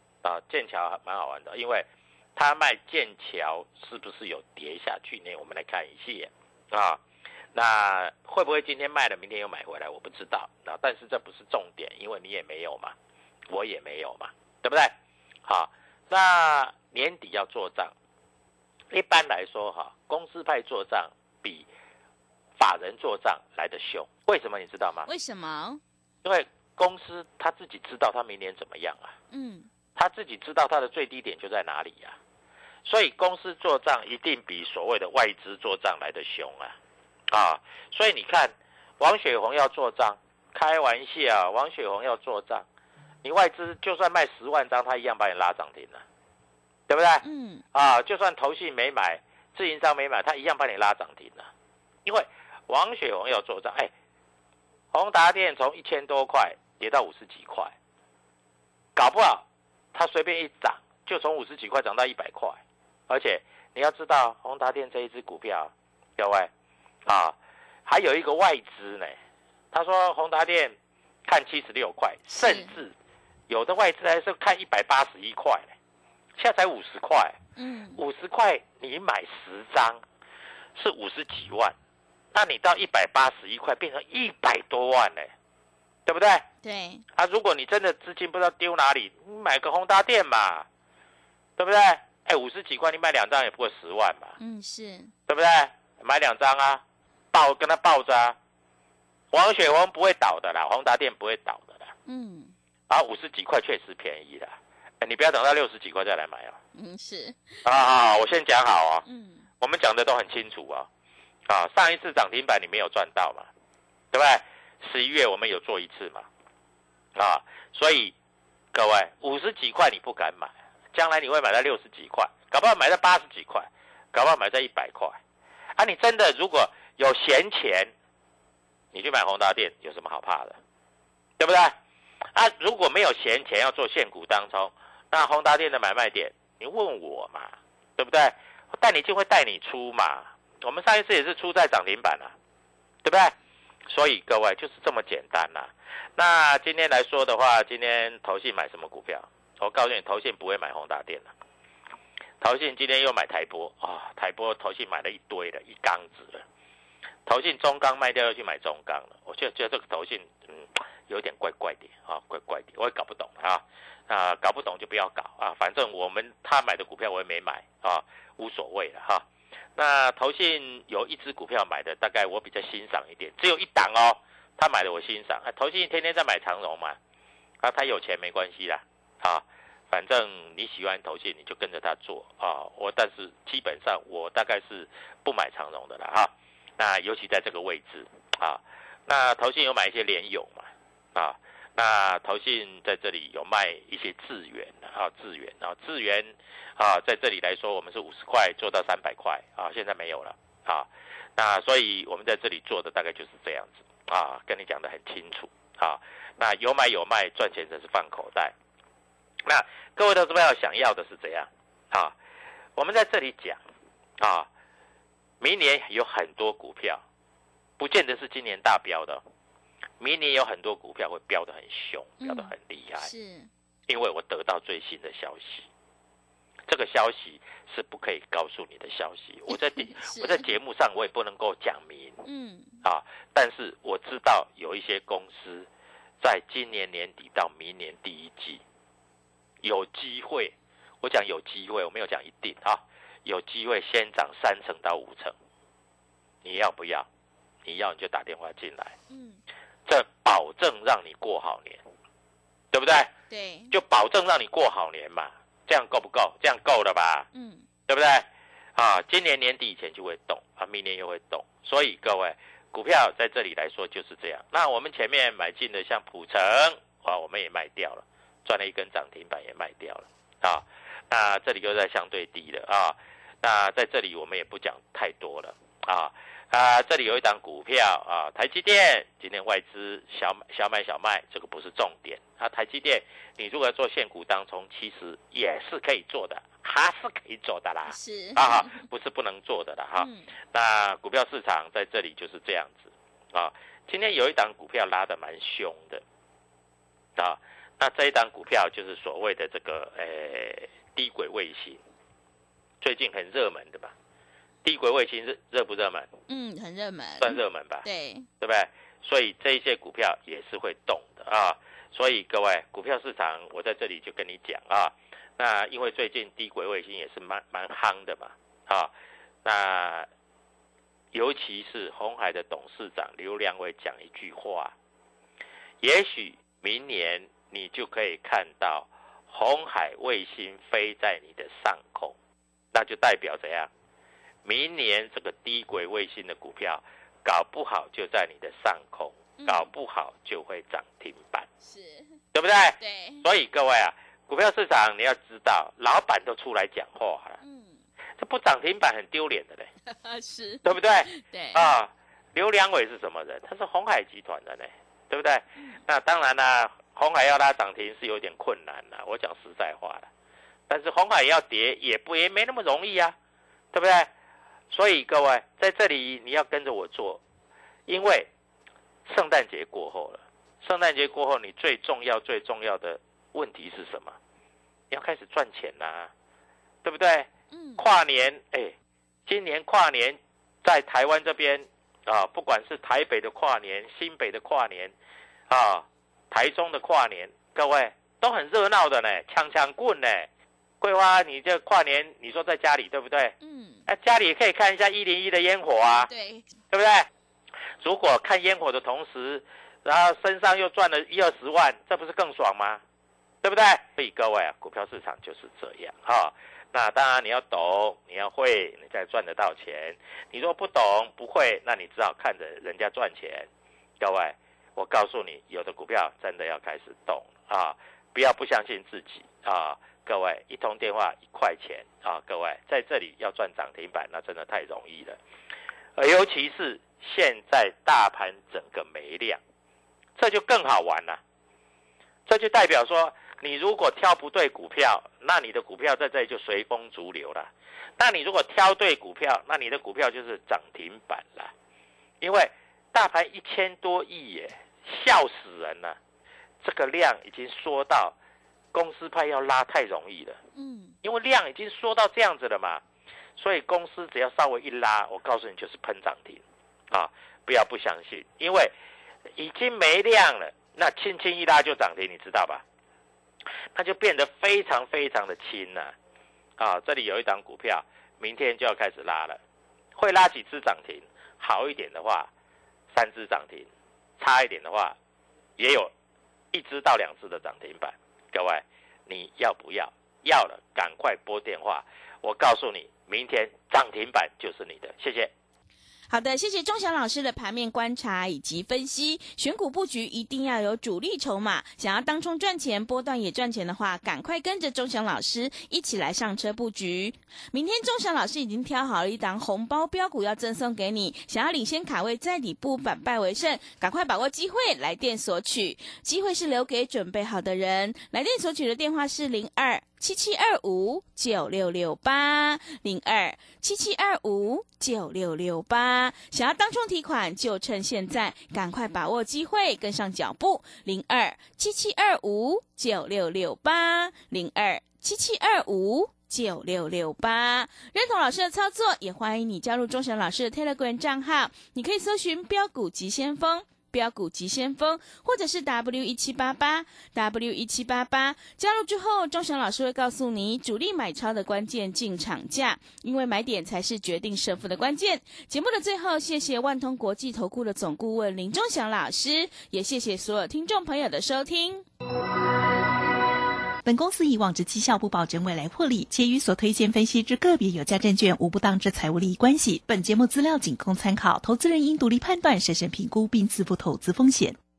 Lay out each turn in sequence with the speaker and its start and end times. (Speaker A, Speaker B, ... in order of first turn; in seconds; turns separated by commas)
Speaker A: 0.2-7.0, Speaker A: 7.5-12.9, Speaker A: 13.5-14.9, Speaker A: 15.4-17.9, Speaker A: 18.9-21.6, Speaker A: 22.6-25.1, Speaker B: 25.1-25.8, Speaker A: 26.2-29.1, Speaker B: 29.3-29.7, Speaker A: 29.9-32.2, Speaker A: 32.9-36.8, Speaker A: 37.3-42.6, Speaker A: 43.2-46.0, Speaker A: 46.9-51.5, Speaker B: 47.2-47.6, Speaker A: 52.0-53.9, Speaker A: 54.9-57.7, Speaker A: 59.0-66.5, Speaker A: 67.0-69.1, Speaker A: 69.7-70.7, Speaker A: 71.3-72.9, Speaker B: 72.3-72.7, Speaker A: 73.5-75.7, Speaker A: 76.4-77.4, Speaker B: 77.5-78.0, Speaker A: 78.0-80.0, Speaker A: 80.8-81.7, Speaker A: 82.3-85.3, Speaker A: 86.0-86.5, Speaker B: 86.6-87.0, Speaker A: 87.1-90.7, Speaker A: 91.6-94.3, Speaker B: 94.4-95.1, Speaker A: 95.3-96.8, Speaker A: 97.3-98.3, Speaker A: 99.3-101.9, Speaker B: 102.0-102.5, Speaker A: 102.9-106.6, Speaker B: 106.7-107.6, Speaker A: 107.6-109.0, Speaker B: 109.0-109.4, Speaker A: 109.6-110.9, Speaker A: 111.5-113.5, Speaker A: 114.1-116.2, Speaker A: 117.1-118.1, Speaker A: 118.7-125.2, Speaker A: 125.8-127.9, Speaker A: 128.9-130.6, Speaker A: 131.4-131.7, Speaker A: 132.3-142.3, Speaker A: 143.0-143.3, Speaker A: 143.9-151.3, Speaker A: 152.4-156.4, Speaker A: 157.2-169.2, Speaker A: 169.8-177.0, Speaker A: 177.6-208.5, Speaker A: 209.4-212.1, Speaker A: 212.8-213.6, Speaker A: 214.2-214.5, Speaker A: 215.4-217.0, Speaker A: 217.8-219.2, Speaker A: 220.0-223.1, Speaker B: 222.2-222.5, Speaker B: 223.0-223.5, Speaker A: 223.9-225.7, Speaker A: 226.7-232.2, Speaker B: 229.9-230.4, Speaker B: 232.2-232.8, Speaker A: 232.8-235.7, Speaker A: 236.2-238.6, Speaker A: 239.6-245.3, Speaker A: 246.4-247.1, Speaker A: 247.7-248.9, Speaker B: 249.1-249.4, Speaker A: 249.9-251.8, Speaker A: 252.7-253.1, Speaker B: 253.3-253.7, Speaker A: 253.7-257.3, Speaker B: 257.3-257.6, Speaker A: 257.9-296.0, Speaker B: 287.9-288.8, Speaker B: 290.0-290.3, Speaker A: 297.2-301.8, Speaker A: 302.8-303.9, Speaker A: 304.6-306.1, Speaker B: 306.3-308.3, Speaker A: 307.2-307.8, Speaker A: 308.4-318.9, Speaker A: 319.4-320.1, Speaker A: 321.1-324.7, Speaker A: 325.8-332.1, Speaker A: 332.7-333.7, Speaker A: 334.4-341.5, Speaker B: 339.4-339.7, Speaker B: 341.6-342.1, Speaker A: 342.3-347.4, Speaker B: 342.8-343.2, Speaker B: 347.4-347.8, Speaker A: 348.2-349.7, Speaker B: 349.9-351.7, Speaker A: 350.6-360.1, Speaker A: 360.7-363.1, Speaker A: 363.7-364.1, Speaker A: 364.7-367.2, Speaker A: 367.9-368.3, Speaker A: 369.1-374.2, Speaker A: 374.9-376.1, Speaker A: 376.8-378.7, Speaker B: 377.5-377.8, Speaker A: 379.3-384.9, Speaker A: 385.5-390.3, Speaker A: 390.8-393.3, Speaker B: 393.4-393.8, Speaker A: 393.9-396.1, Speaker B: 395.8-396.5, Speaker A: 396.7-397.1, Speaker A: 397.8-402.8, Speaker A: 403.4-413.5, Speaker A: 414.0-425.2, Speaker A: 426.0-429.4, Speaker A: 430.2-431.2, Speaker A: 432.3-441.5, Speaker A: 442.2-446.0, Speaker A: 446.6-448.1, Speaker A: 448.7-450.4, Speaker B: 450.5-450.9, Speaker A: 451.0-452.8, Speaker A: 453.4-458.7, Speaker A: 459.4-462.6, Speaker A: 463.7-465.9, Speaker A: 466.6-469.4, Speaker A: 469.9-472.3, Speaker A: 472.9-474.9, Speaker A: 475.6-475.9, Speaker A: 476.5-485.3, Speaker B: 486.1-551.8, Speaker C: 553.8-564.6